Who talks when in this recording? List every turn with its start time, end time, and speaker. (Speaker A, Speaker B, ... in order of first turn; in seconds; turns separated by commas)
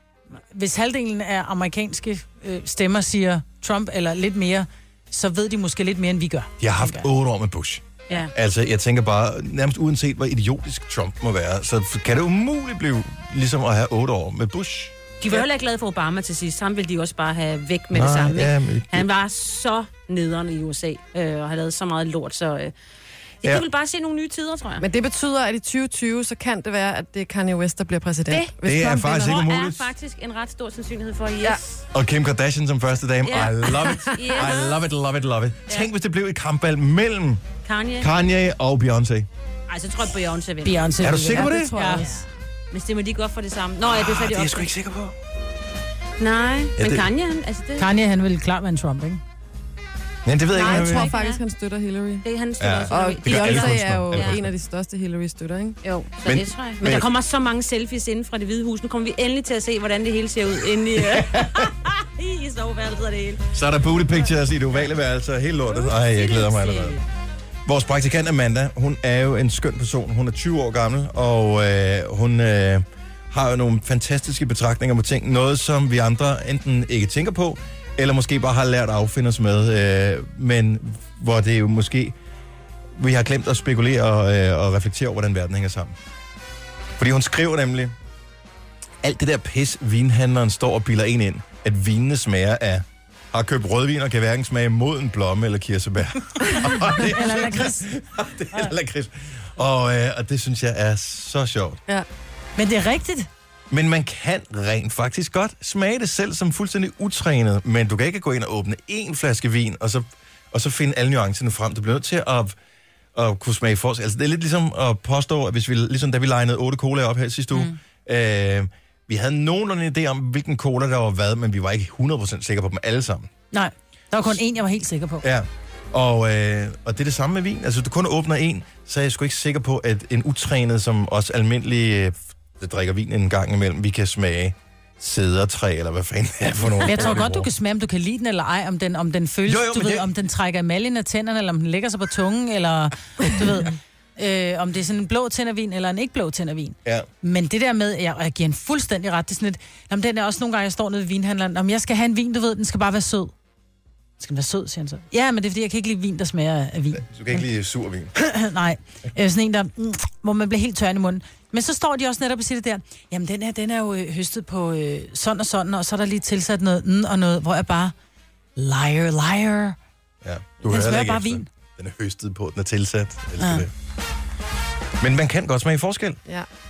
Speaker A: 0.5-7.1, Speaker B: 6.6-14.9, Speaker C: 15.2-22.7, Speaker B: 17.9-19.1, Speaker C: 23.4-24.9, Speaker D: 24.8-29.3, Speaker C: 28.3-31.8, Speaker B: 28.6-29.9, Speaker B: 31.9-37.4, Speaker C: 33.2-34.8, Speaker D: 33.8-34.1, Speaker C: 37.6-38.1, Speaker B: 38.0-39.3, Speaker C: 39.7-41.1, Speaker A: 40.6-42.1, Speaker B: 41.0-41.7, Speaker D: 41.3-42.1, Speaker C: 41.9-44.7, Speaker B: 43.9-45.1, Speaker C: 46.2-47.9, Speaker B: 46.8-47.1, Speaker A: 47.8-49.2, Speaker B: 50.2-51.1, Speaker D: 50.5-52.2, Speaker C: 50.5-51.4, Speaker C: 52.2-54.4, Speaker B: 52.6-54.5, Speaker D: 52.9-55.8, Speaker C: 55.8-63.5, Speaker B: 56.2-57.1, Speaker B: 61.0-61.7, Speaker B: 63.5-67.0, Speaker C: 65.7-67.0, Speaker B: 67.7-82.2, Speaker B: 83.0-86.0, Speaker B: 87.0-87.9, Speaker B: 89.0-101.8, Speaker A: 96.5-97.9, Speaker A: 102.6-103.3, Speaker B: 103.7-112.5, Speaker B: 113.1-123.3, Speaker A: 123.5-125.2, Speaker B: 125.2-137.5, Speaker A: 136.9-153.3, Speaker B: 139.4-140.1, Speaker A: 154.2-157.4, Speaker B: 156.9-158.1, Speaker A: 158.1-167.9, Speaker A: 168.6-169.8, Speaker B: 170.2-173.7, Speaker A: 170.6-171.5, Speaker A: 173.4-173.6, Speaker B: 175.0-176.2